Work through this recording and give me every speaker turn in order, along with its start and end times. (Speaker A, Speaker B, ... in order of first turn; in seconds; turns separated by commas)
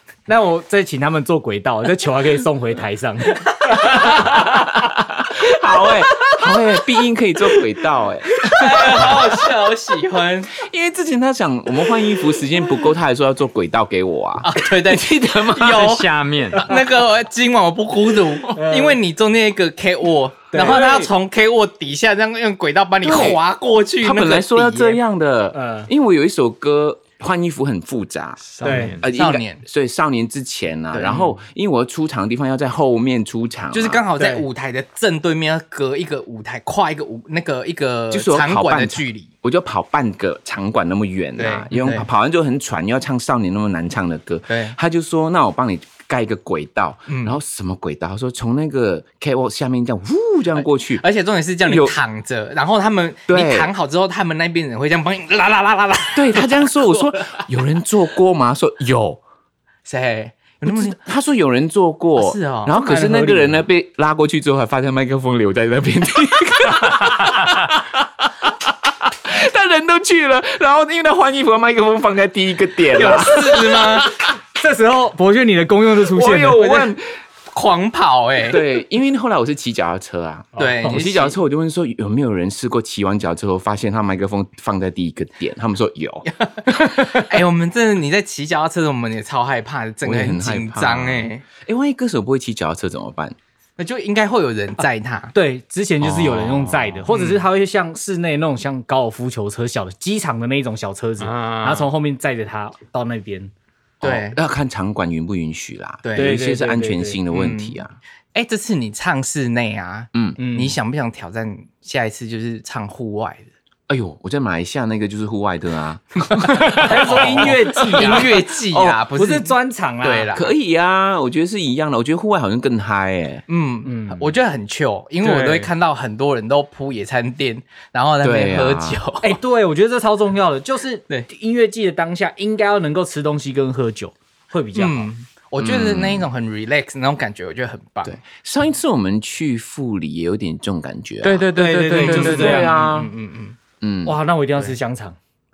Speaker A: 0.3-4.6, Speaker B: 3.8-9.3, Speaker C: 8.4-10.5, Speaker B: 10.5-16.0, Speaker C: 14.4-16.1, Speaker D: 15.6-16.7, Speaker C: 16.6-25.0, Speaker A: 18.5-19.0, Speaker A: 20.5-21.1, Speaker B: 23.0-23.4, Speaker B: 24.0-34.0, Speaker A: 25.5-25.9, Speaker D: 28.5-29.0, Speaker A: 28.6-29.0, Speaker C: 28.6-29.6, Speaker C: 30.9-31.3, Speaker C: 33.7-39.3, Speaker A: 34.2-34.4, Speaker B: 38.1-51.0, Speaker C: 41.4-42.1, Speaker C: 44.5-44.7, Speaker C: 47.1-47.4, Speaker C: 51.0-56.7, Speaker B: 51.6-52.0, Speaker B: 53.3-53.7, Speaker B: 56.1-59.2, Speaker C: 59.9-61.0, Speaker B: 60.6-74.2, Speaker C: 62.1-62.7, Speaker A: 62.7-63.6, Speaker C: 72.9-74.1, Speaker A: 74.5-76.8, Speaker B: 76.0-77.0, Speaker C: 76.5-76.9, Speaker C: 77.5-78.6, Speaker B: 78.4-87.1, Speaker C: 80.5-81.4, Speaker C: 86.4-91.4, Speaker B: 90.0-93.3, Speaker C: 93.8-95.3, Speaker A: 95.3-103.5, Speaker B: 96.0-97.1, Speaker C: 97.1-97.4, Speaker D: 101.2-101.9, Speaker C: 104.0-104.4, Speaker B: 104.0-108.0, Speaker C: 106.0-106.4, Speaker A: 106.2-107.2, Speaker C: 107.3-107.8, Speaker C: 108.3-113.5, Speaker B: 110.1-110.4, Speaker A: 110.4-110.8, Speaker B: 113.9-119.0, Speaker C: 116.4-120.5, Speaker A: 116.8-120.3, Speaker B: 120.3-123.4, Speaker C: 123.5-129.4, Speaker A: 123.8-124.3, Speaker A: 125.2-125.7, Speaker B: 128.2-129.0, Speaker A: 129.2-135.1, Speaker C: 134.7-138.2, Speaker B: 135.6-136.3, Speaker B: 138.0-141.5, Speaker D: 141.2-142.7, Speaker A: 141.5-142.7, Speaker C: 141.9-143.6, Speaker B: 142.1-143.1, Speaker B: 143.8-144.2, Speaker A: 144.0-145.2